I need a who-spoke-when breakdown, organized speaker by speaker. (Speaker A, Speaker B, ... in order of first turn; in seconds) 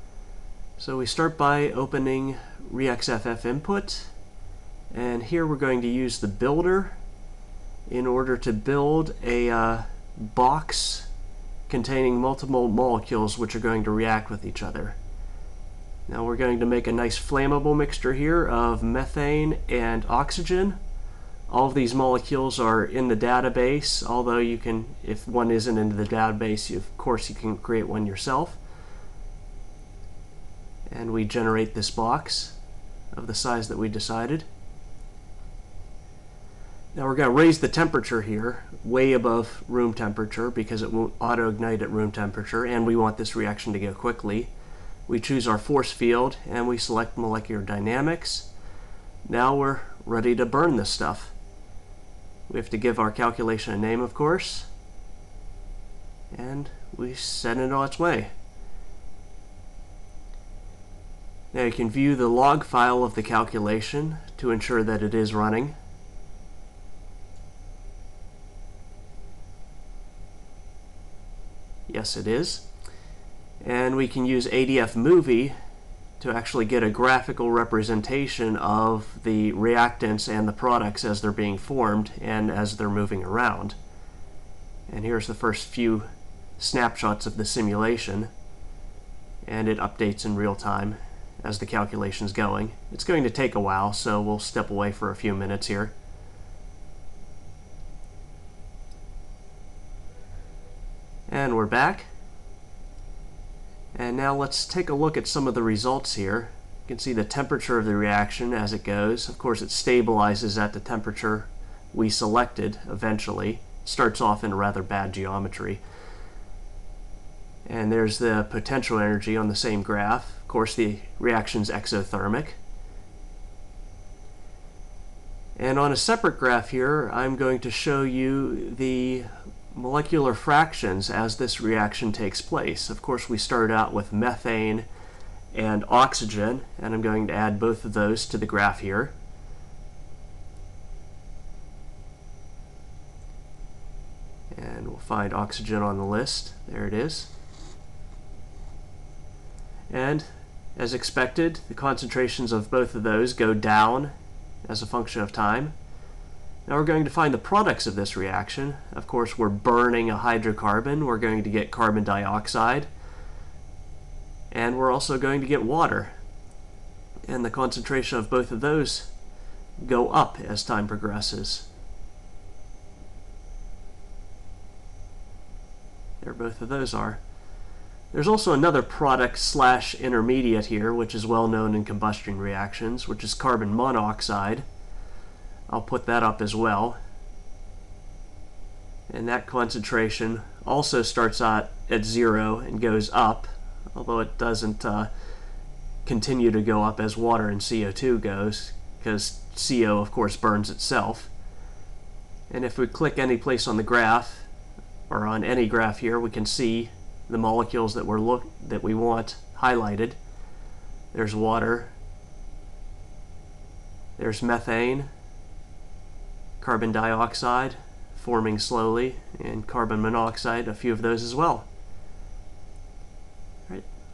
Speaker A: 0.8-4.1, 4.9-7.0, 7.9-11.1, 11.7-15.0, 16.1-20.8, 21.5-28.6, 30.9-32.6, 33.1-34.5, 36.9-44.5, 45.1-48.5, 49.3-51.3, 52.5-54.7, 56.3-58.3, 61.5-65.7, 71.9-72.7, 73.6-75.5, 76.2-83.8, 84.9-86.1, 86.6-88.3, 89.4-95.9, 101.3-102.1, 103.9-115.8, 117.7-122.6, 125.5-134.9, 135.5-139.1, 144.5-147.3, 149.9-154.1, 154.6-155.7, 156.7-162.9, 164.5-166.1, 167.3-169.1, 169.8-171.7, 176.2-177.2, 178.1-184.6, 185.7-187.0, 189.1-195.1, 196.0-201.3, 202.5-204.5, 205.1-210.2, 211.1-211.9, 214.2-215.1, 216.6-221.7